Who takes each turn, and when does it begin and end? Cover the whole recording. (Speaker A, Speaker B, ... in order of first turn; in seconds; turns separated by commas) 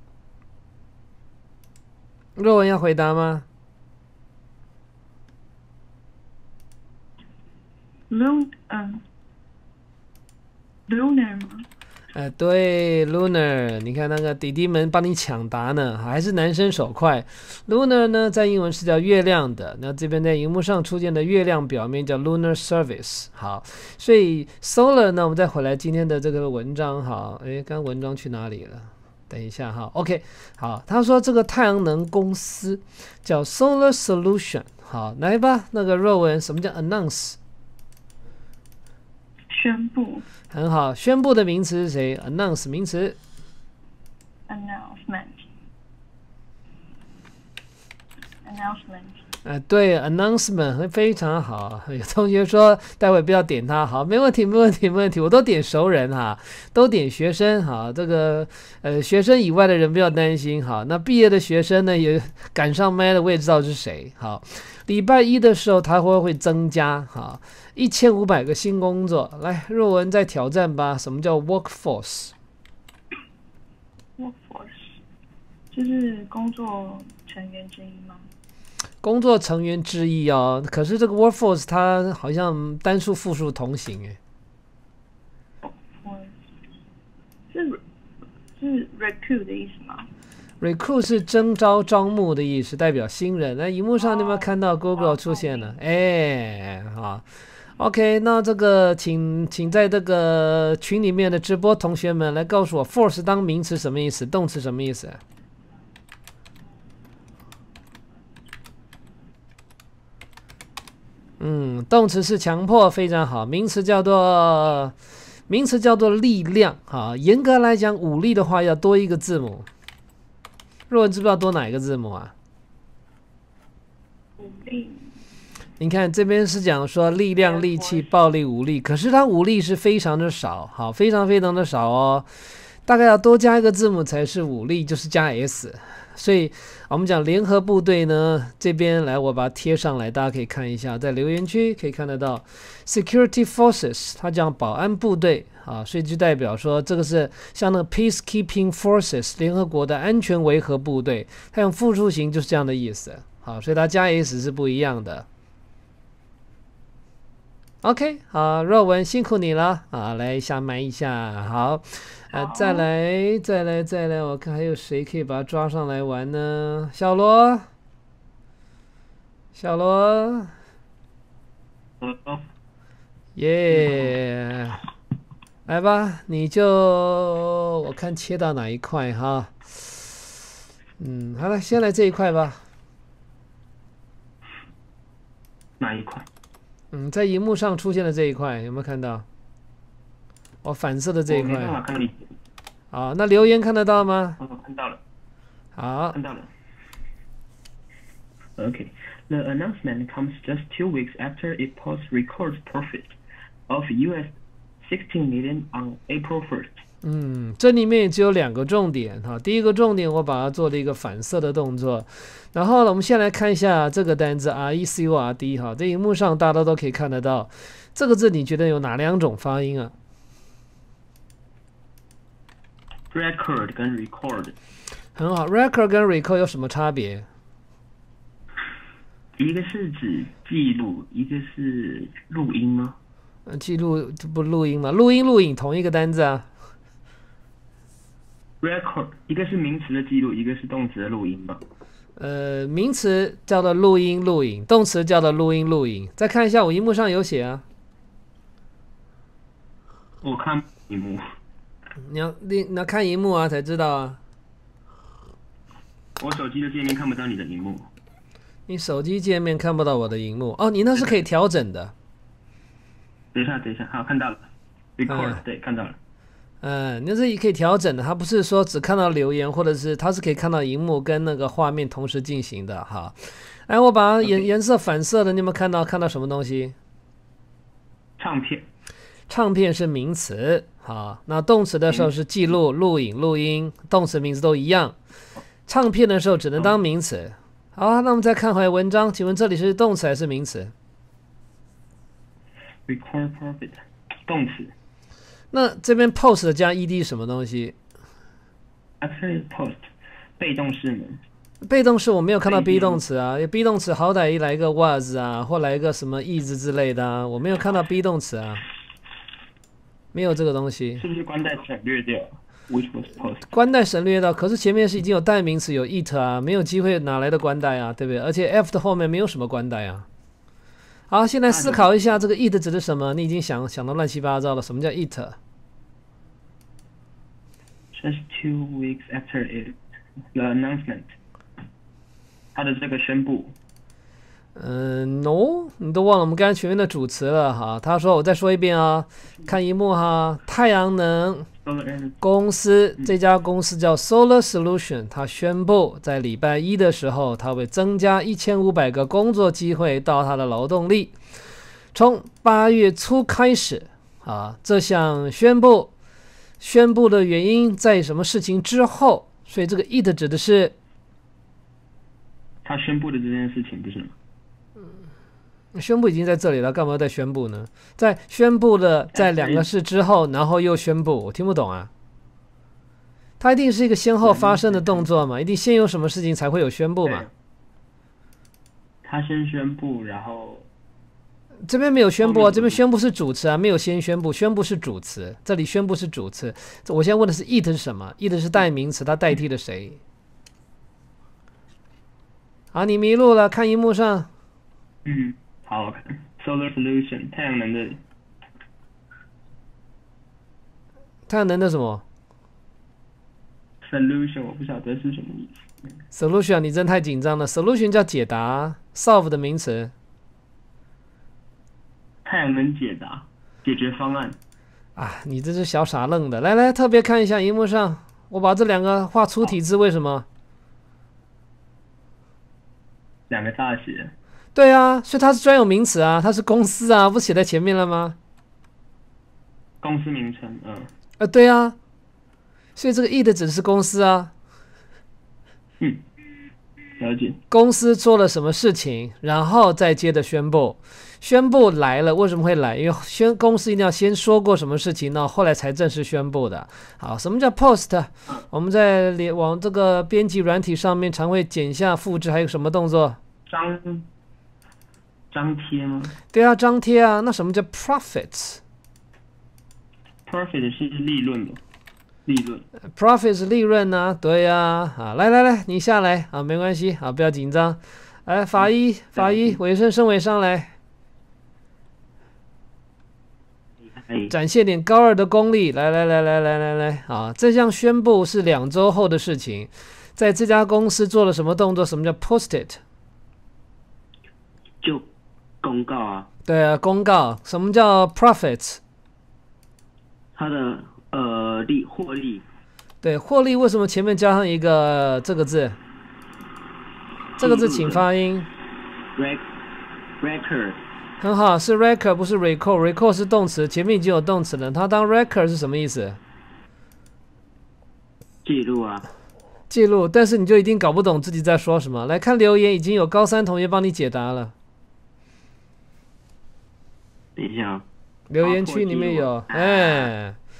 Speaker A: 2.4-3.4, Speaker B: 8.1-9.0, Speaker B: 10.9-11.7, Speaker A: 12.1-37.4, Speaker B: 39.5-40.2, Speaker A: 40.5-43.2, Speaker B: 44.5-45.4, Speaker B: 48.4-49.2, Speaker A: 49.4-72.3, Speaker B: 74.2-75.0, Speaker B: 75.7-78.3, Speaker A: 79.0-84.2, Speaker B: 85.6-86.3, Speaker B: 87.5-87.8, Speaker B: 88.6-90.1, Speaker A: 90.6-97.3, Speaker B: 94.0-95.7, Speaker A: 97.8-105.2, Speaker A: 111.4-114.9, Speaker A: 115.5-119.7, Speaker A: 120.9-122.3, Speaker B: 124.4-125.2, Speaker A: 125.8-132.3, Speaker B: 127.5-128.0, Speaker A: 132.8-155.2, Speaker A: 157.8-167.7, Speaker B: 162.3-162.8, Speaker A: 169.6-170.5, Speaker C: 172.0-172.4, Speaker A: 173.3-174.8, Speaker C: 173.7-174.1, Speaker A: 175.7-180.1, Speaker A: 181.0-182.6, Speaker C: 185.8-186.2, Speaker A: 186.9-189.2, Speaker A: 190.6-191.8, Speaker C: 191.3-192.2, Speaker A: 192.9-194.4, Speaker C: 194.4-195.0, Speaker A: 195.8-196.2, Speaker C: 196.1-196.5, Speaker C: 198.6-203.2, Speaker C: 203.7-206.8, Speaker A: 207.0-219.9, Speaker C: 223.1-224.5, Speaker A: 225.2-227.2, Speaker C: 229.4-233.0, Speaker A: 233.5-236.4, Speaker C: 238.6-241.6, Speaker A: 242.2-247.6, Speaker C: 250.2-251.2, Speaker A: 252.0-254.2, Speaker C: 256.2-257.9, Speaker A: 258.7-261.9, Speaker C: 263.3-266.0, Speaker A: 265.1-265.4, Speaker A: 266.6-276.7, Speaker C: 278.2-278.6, Speaker A: 279.3-284.9, Speaker A: 285.7-290.7, Speaker C: 292.9-294.7, Speaker A: 295.5-297.7, Speaker C: 299.0-299.9, Speaker C: 300.4-301.2, Speaker A: 301.6-308.6, Speaker C: 302.4-303.0, Speaker A: 310.1-311.0, Speaker C: 311.0-313.5, Speaker A: 313.5-320.1, Speaker A: 321.1-325.4, Speaker C: 321.5-321.9, Speaker C: 327.9-329.8, Speaker C: 330.3-331.1, Speaker C: 332.5-333.5, Speaker A: 334.6-341.5, Speaker C: 341.6-342.2, Speaker A: 342.2-351.1, Speaker A: 351.9-355.9, Speaker A: 356.6-360.7, Speaker C: 362.6-364.1, Speaker A: 365.7-371.9, Speaker C: 369.1-369.6, Speaker A: 373.4-377.2, Speaker C: 374.2-375.1, Speaker C: 377.0-377.3, Speaker C: 379.0-380.6, Speaker A: 381.7-390.0, Speaker C: 382.2-382.8, Speaker A: 392.7-394.3, Speaker C: 395.0-398.0, Speaker A: 401.3-402.0, Speaker C: 403.8-405.9, Speaker A: 406.1-409.9, Speaker C: 412.2-414.4, Speaker A: 414.9-420.2, Speaker C: 423.3-424.1, Speaker A: 424.5-428.1, Speaker C: 429.8-430.9, Speaker A: 431.2-431.8, Speaker A: 432.8-434.3, Speaker C: 437.0-437.4, Speaker A: 437.5-453.2, Speaker C: 453.5-454.0, Speaker C: 455.3-456.2, Speaker A: 456.3-458.6, Speaker C: 460.2-461.6, Speaker C: 462.2-462.7, Speaker A: 462.9-470.7, Speaker D: 474.1-474.3, Speaker A: 474.3-482.8, Speaker D: 484.8-485.1, Speaker D: 485.6-486.3, Speaker A: 486.5-488.8, Speaker D: 490.3-492.4, Speaker A: 493.0-495.8, Speaker A: 497.4-498.5, Speaker D: 497.4-498.1, Speaker D: 499.1-499.4, Speaker D: 500.2-500.8, Speaker A: 501.2-506.2, Speaker D: 508.4-509.1, Speaker A: 509.7-514.5, Speaker D: 517.4-517.9, Speaker A: 518.3-520.4, Speaker D: 518.4-520.1